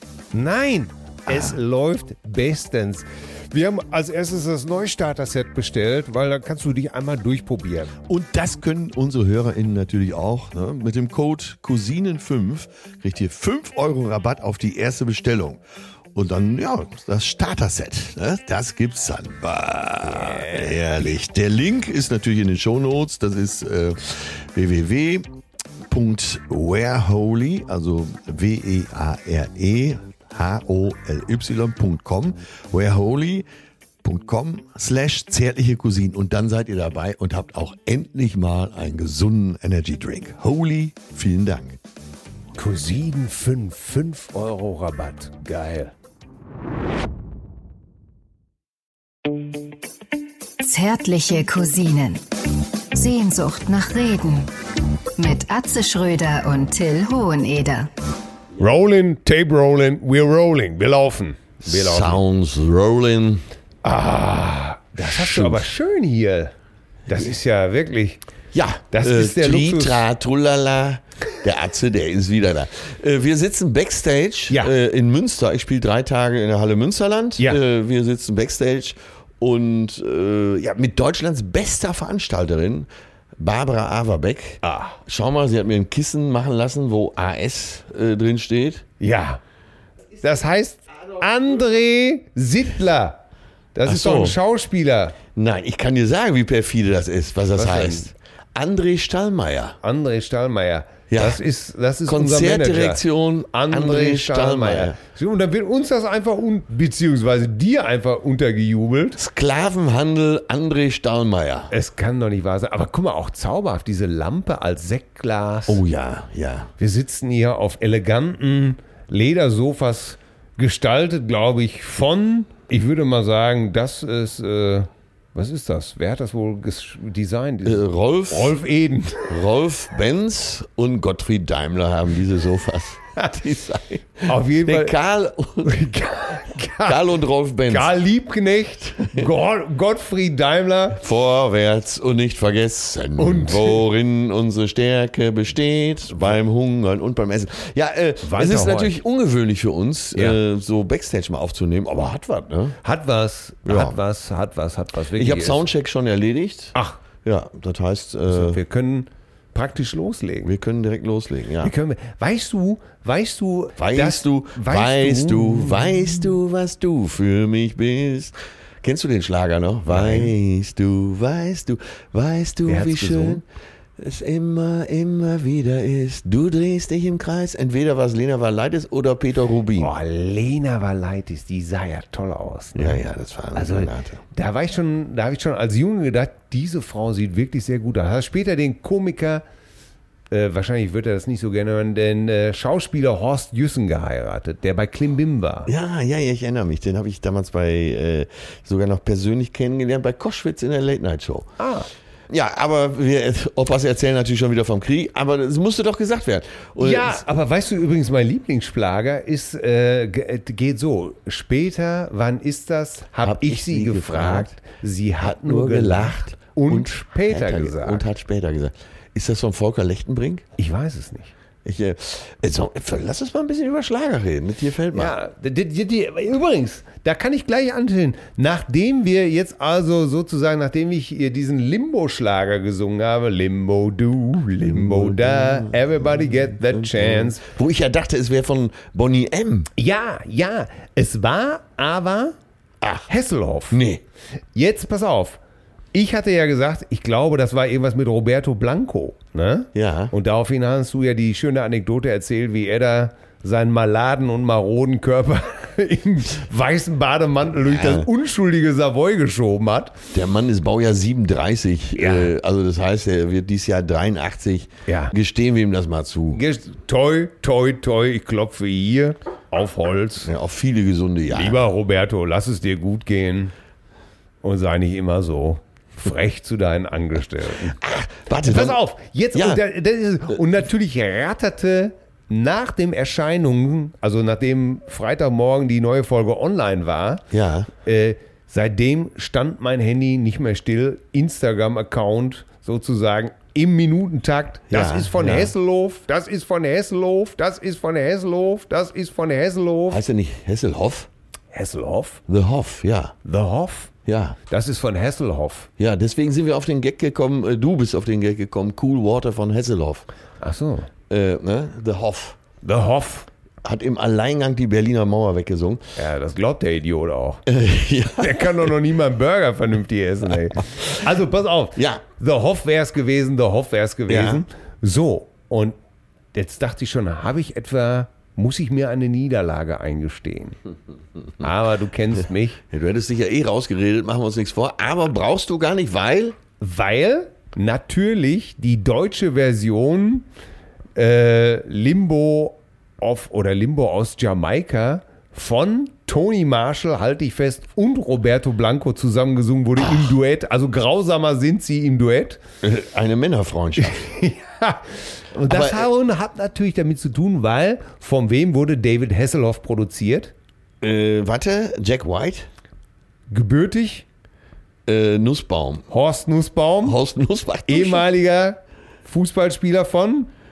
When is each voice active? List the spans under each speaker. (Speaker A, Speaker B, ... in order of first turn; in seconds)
Speaker A: 0.3-7.9, 20.1-20.9, 42.5-45.9, 58.6-62.2, 63.8-66.5, 67.1-68.2, 68.9-70.1, 84.6-85.0, 89.0-89.4, 90.2-93.2, 93.7-95.2, 97.5-98.1, 99.8-109.2, 111.7-115.8, 116.8-129.4, 134.2-135.0, 135.6-137.1, 137.7-141.0, 143.2-143.8, 148.2-149.0, 152.8-155.7, 158.3-160.5, 161.6-166.1, 169.9-170.3, 172.7-173.4, 179.8-183.0, 183.5-189.4, 190.3-195.7, 201.6-201.9, 206.8-218.0, 220.6-221.3, 224.9-237.4, 239.8-242.3, 243.1-243.8, 244.5-245.4, 245.9-260.0, 262.0-262.3, 264.9-265.1, 266.3-270.3, 271.3-273.5, 274.4-277.8, 278.4-287.2, 287.8-300.0, 301.5-302.2, 303.2-303.9, 304.5-305.7, 310.4-310.9, 312.6-313.3, 315.9-317.5, 318.2-325.7, 326.3-330.6, 331.4-332.6, 336.6-340.3, 340.9-352.4, 353.8-360.3, 363.3-364.0, 365.9-367.0, 367.7-370.3
Speaker B: 1.3-1.6, 8.1-15.6, 16.1-25.2, 25.9-33.5, 34.0-41.8, 61.6-63.4, 65.0-65.7, 68.5-82.9, 83.4-88.8, 93.8-94.4, 95.3-99.8, 101.1-101.4, 102.1-105.0, 109.2-111.7, 115.7-116.7, 127.6-128.6, 129.3-135.8, 136.8-137.9, 140.9-152.8, 153.6-154.0, 155.1-158.6, 160.4-161.7, 163.8-173.4, 174.0-179.9, 182.8-184.2, 195.7-201.5, 202.3-207.2, 213.2-214.5, 215.2-220.4, 221.6-225.1, 234.6-239.7, 242.8-243.1, 243.7-244.0, 249.7-250.1, 257.5-258.1, 260.1-266.4, 270.2-271.6, 277.7-278.8, 279.3-279.6, 287.3-287.7, 294.7-295.5, 299.9-301.1, 302.3-303.2, 304.1-304.4, 305.8-310.1, 311.1-312.4, 313.6-315.8, 317.5-318.7, 321.8-322.0, 324.1-324.4, 332.7-336.4, 349.8-350.1, 352.6-354.1, 355.5-355.9, 360.8-362.5, 364.9-365.9, 366.8-368.1
Speaker C: 50.6-52.2, 52.9-54.5, 55.2-57.9